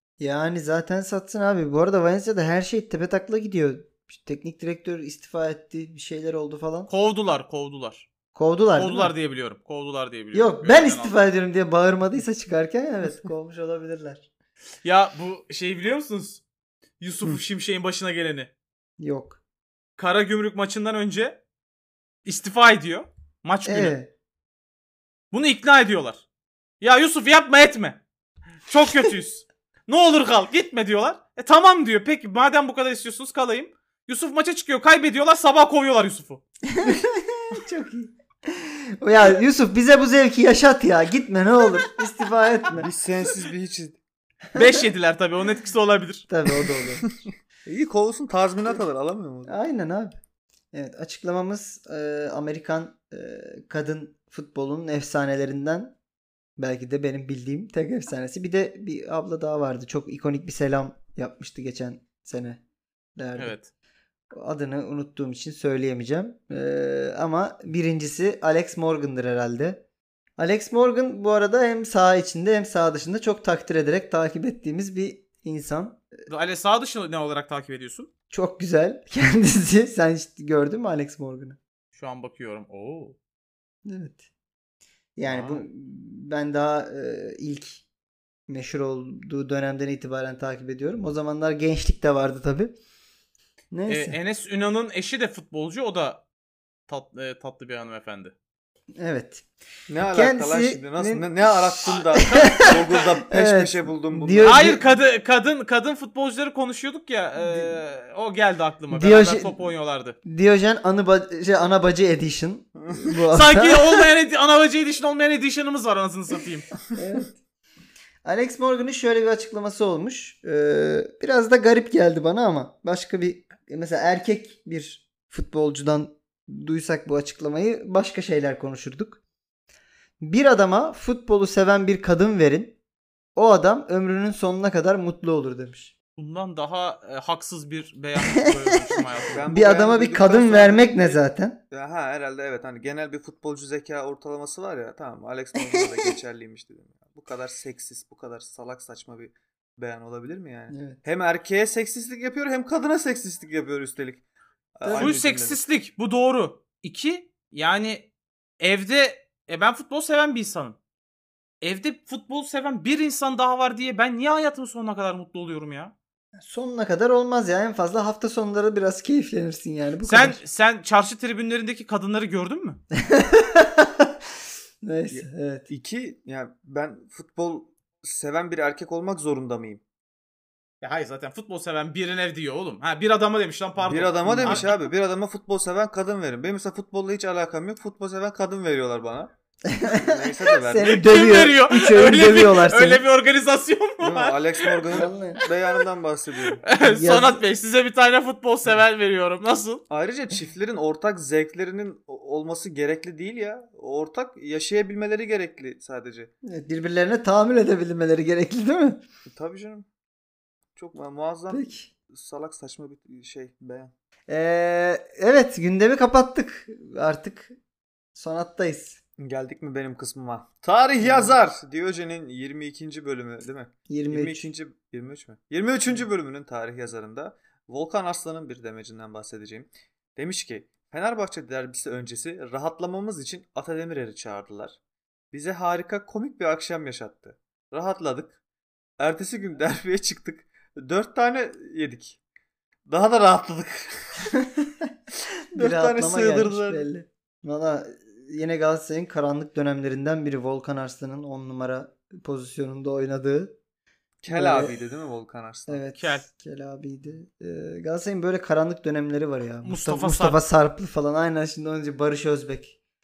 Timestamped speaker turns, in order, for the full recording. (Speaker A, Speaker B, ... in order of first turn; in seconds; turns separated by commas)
Speaker A: 0.2-6.9, Speaker B: 6.9-8.1, Speaker A: 8.3-9.1, Speaker B: 8.8-11.2, Speaker A: 10.3-14.3, Speaker B: 14.8-16.4, Speaker B: 17.0-18.5, Speaker A: 19.0-19.4, Speaker B: 20.0-21.4, Speaker B: 22.2-23.9, Speaker A: 23.6-24.1, Speaker B: 25.3-26.2, Speaker B: 26.8-28.0, Speaker B: 28.7-36.4, Speaker A: 36.7-42.9, Speaker C: 42.7-44.0, Speaker A: 44.5-44.9, Speaker B: 44.5-46.3, Speaker A: 46.3-47.1, Speaker C: 47.6-49.5, Speaker A: 49.5-50.2, Speaker A: 50.7-56.0, Speaker A: 56.6-62.6, Speaker A: 63.2-63.6, Speaker B: 63.4-63.7, Speaker A: 64.3-69.8, Speaker A: 70.4-76.0, Speaker B: 76.3-78.1, Speaker A: 78.3-81.6, Speaker B: 81.9-83.2, Speaker A: 83.9-84.2, Speaker A: 85.2-87.8, Speaker C: 85.3-85.6, Speaker A: 88.5-92.7, Speaker A: 93.7-94.2, Speaker B: 93.9-96.2, Speaker B: 96.9-98.3, Speaker A: 99.0-99.5, Speaker C: 99.9-104.7, Speaker A: 100.1-102.7, Speaker B: 101.9-102.9, Speaker A: 103.3-104.9, Speaker B: 104.4-110.2, Speaker A: 107.4-107.8, Speaker A: 108.9-109.7, Speaker A: 110.2-114.1, Speaker B: 113.3-116.7, Speaker A: 116.9-117.4, Speaker A: 118.2-129.2, Speaker A: 130.2-132.8, Speaker A: 133.3-135.9, Speaker B: 136.2-139.4, Speaker A: 138.4-138.8, Speaker C: 139.2-154.2, Speaker A: 139.5-141.6, Speaker A: 150.7-151.0, Speaker C: 154.8-155.6, Speaker A: 154.8-155.2, Speaker B: 155.0-158.1, Speaker B: 158.6-160.8, Speaker B: 161.6-165.9, Speaker A: 166.4-170.4, Speaker B: 170.1-172.8, Speaker A: 172.9-174.1, Speaker A: 174.8-175.7, Speaker C: 175.1-179.8, Speaker B: 180.8-184.9, Speaker C: 183.8-189.3, Speaker A: 184.2-184.7, Speaker A: 189.7-193.0, Speaker C: 189.8-191.1, Speaker B: 190.8-195.0, Speaker C: 194.0-196.6, Speaker A: 194.9-195.4, Speaker B: 196.6-199.8, Speaker A: 196.8-197.4, Speaker C: 199.9-206.3, Speaker A: 206.4-209.0, Speaker C: 209.3-209.9, Speaker C: 210.8-213.9, Speaker A: 211.5-211.9, Speaker A: 214.3-217.6, Speaker A: 218.2-219.0, Speaker C: 219.2-234.8, Speaker A: 221.0-221.4, Speaker A: 223.9-224.5, Speaker C: 235.3-238.4, Speaker C: 239.0-242.2, Speaker C: 242.9-244.3, Speaker A: 244.4-244.9, Speaker A: 245.5-253.6, Speaker C: 245.5-246.9, Speaker C: 254.2-255.8, Speaker A: 254.3-254.8, Speaker A: 255.7-262.8, Speaker B: 256.0-256.3, Speaker B: 259.6-260.4